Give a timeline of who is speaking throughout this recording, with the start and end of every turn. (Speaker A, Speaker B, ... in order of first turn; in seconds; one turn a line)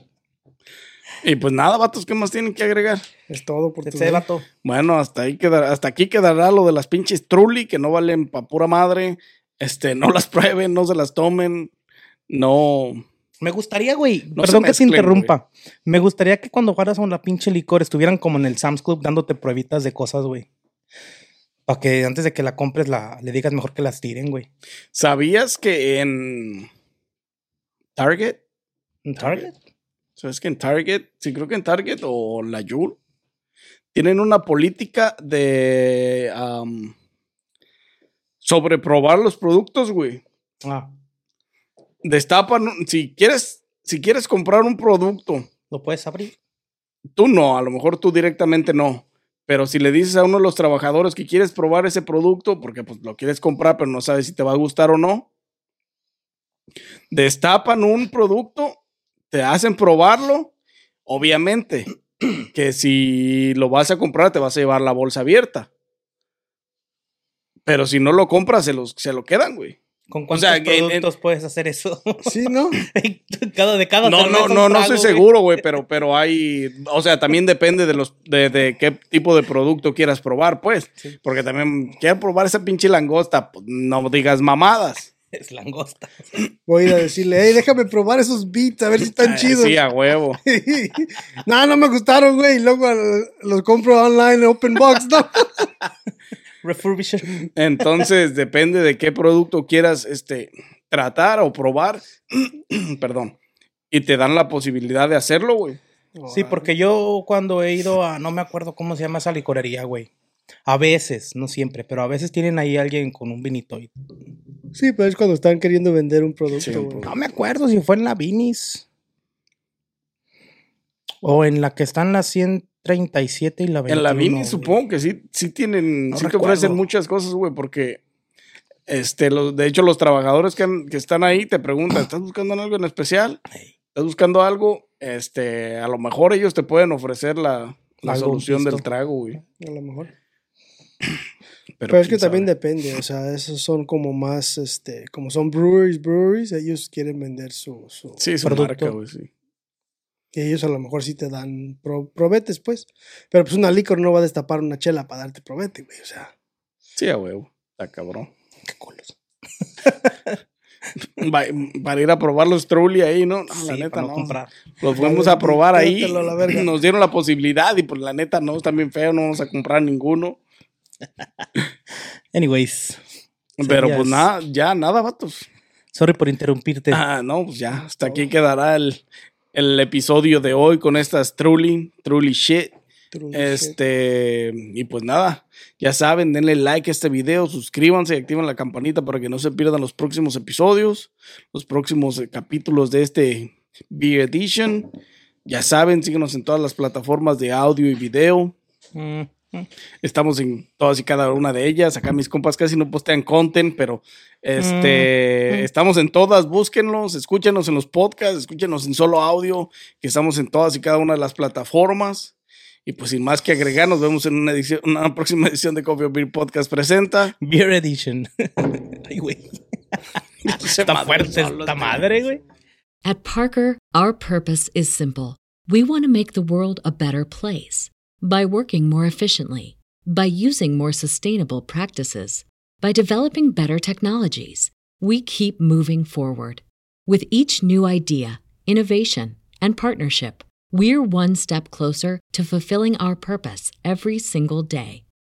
Speaker A: 1.2-3.0
Speaker B: 3.3-4.2
Speaker C: 3.8-4.5
Speaker A: 4.6-11.7
Speaker A: 12.3-13.1
Speaker C: 13.4-20.5
Speaker A: 14.3-15.3
Speaker C: 21.7-24.5
Speaker A: 24.9-26.7
Speaker A: 27.9-28.4
Speaker C: 29.1-29.6
Speaker A: 29.2-29.5
Speaker A: 30.2-33.0
Speaker A: 33.9-36.9
Speaker A: 38.4-40.2
Speaker A: 42.0-45.5
Speaker C: 45.7-46.3
Speaker A: 47.1-55.3
Speaker A: 57.1-58.8
Speaker A: 59.3-60.5
Speaker A: 61.1-61.9
Speaker A: 62.5-65.7
Speaker A: 67.7-69.8
Speaker C: 70.1-75.3
Speaker A: 70.3-71.1
Speaker B: 72.2-72.8
Speaker A: 74.0-85.1
Speaker C: 85.3-86.3
Speaker B: 86.7-89.8
Speaker A: 89.1-90.4
Speaker B: 90.4-95.7
Speaker C: 96.6-97.5
Speaker A: 97.6-103.3
Speaker A: 103.9-105.8
Speaker B: 106.2-106.7
Speaker C: 106.3-110.1
Speaker C: 110.7-113.9
Speaker B: 114.8-117.1
Speaker A: 116.6-117.1
Speaker C: 117.0-118.8
Speaker C: 121.2-124.8
Speaker A: 123.9-128.0
Speaker C: 126.1-126.8
Speaker A: 128.9-133.4
Speaker A: 133.9-139.4
Speaker C: 138.0-138.8
Speaker B: 139.6-140.1
Speaker A: 141.8-142.5
Speaker B: 141.9-148.2
Speaker A: 148.2-149.3
Speaker C: 148.4-148.9
Speaker B: 150.3-156.3
Speaker A: 156.9-158.3
Speaker C: 158.7-159.1
Speaker C: 159.8-160.1
Speaker A: 161.2-170.4
Speaker C: 163.5-164.5
Speaker B: 164.9-166.7
Speaker C: 172.3-173.0
Speaker A: 173.6-175.4
Speaker C: 173.6-174.3
Speaker C: 175.9-177.0
Speaker A: 176.9-179.0
Speaker B: 177.8-178.3
Speaker A: 179.5-182.7
Speaker B: 183.1-183.7
Speaker A: 183.3-194.9
Speaker A: 195.4-198.6
Speaker C: 198.9-199.7
Speaker A: 200.0-212.3
Speaker C: 204.6-205.7
Speaker A: 212.9-217.3
Speaker C: 217.4-219.4
Speaker A: 220.4-222.2
Speaker C: 220.5-222.4
Speaker D: 223.0-245.0